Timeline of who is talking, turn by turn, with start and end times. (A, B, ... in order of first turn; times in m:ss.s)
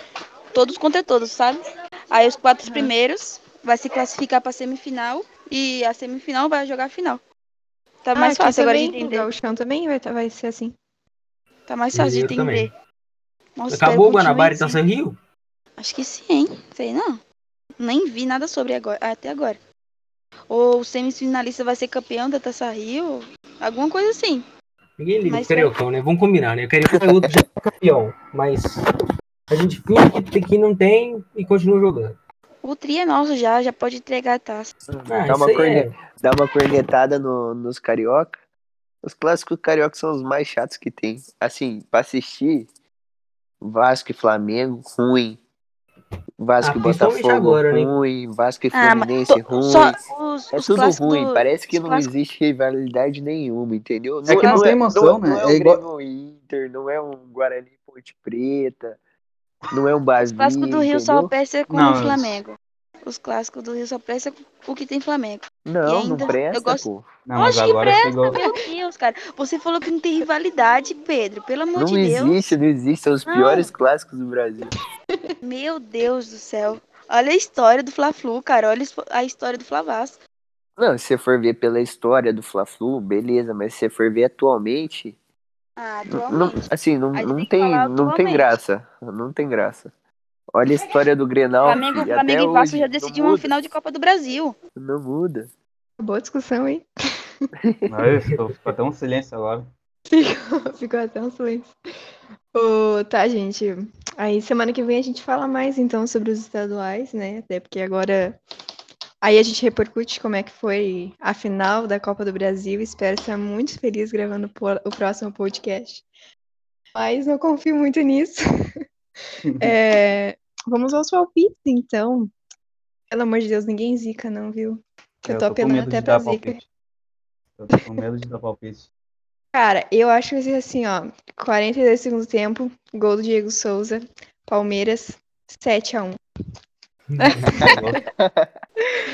0:00.5-0:07.2 A
0:02.6-0:02.9 B
0:08.0-0:09.3 A
0:08.1-0:10.7 B
0:11.7-0:12.7 A
0:11.9-0:12.7 C
0:13.6-0:14.8 A
0:13.7-0:15.2 C
0:15.8-0:17.2 A
0:17.8-0:19.6 A
0:20.5-0:24.4 A
0:25.0-0:28.8 C
0:25.2-0:25.7 A
0:27.0-0:27.3 D
0:29.5-0:32.2 C
0:32.6-0:34.7 A
0:34.9-0:38.3 D
0:35.1-0:36.0 C
0:39.0-0:42.7 D
0:43.6-0:45.4 D
0:46.4-0:50.0 D
0:46.6-0:47.9 C
0:48.7-0:52.1 A
0:50.5-0:59.0 D
0:54.2-0:54.7 A
0:54.2-0:55.8 E
0:59.7-1:01.3 D
1:00.2-1:12.4 A
1:01.7-1:02.4 E
1:05.6-1:07.1 D
1:07.2-1:08.4 E
1:11.8-1:14.7 D
1:13.3-1:13.7 A
1:15.4-1:20.2 A
1:20.8-1:25.2 D
1:25.8-1:26.6 A
1:26.1-1:29.9 D
1:27.1-1:28.6 A
1:30.5-1:33.5 D
1:31.6-1:34.5 A
1:34.8-1:35.5 D
1:36.0-1:36.8 B
1:37.6-1:37.8 D
1:37.8-1:39.7 E
1:40.1-1:41.7 B
1:42.5-1:48.4 B
1:49.2-1:56.0 B
1:56.9-1:58.4 B
1:59.4-1:59.7 E
1:59.6-2:02.3 B
2:03.1-2:06.6 B
2:05.2-2:06.7 E
2:07.6-2:08.9 E
2:09.5-2:16.2 B
2:17.1-2:17.5 C
2:17.3-2:17.8 B
2:17.6-2:18.5 D
2:17.7-2:18.0 E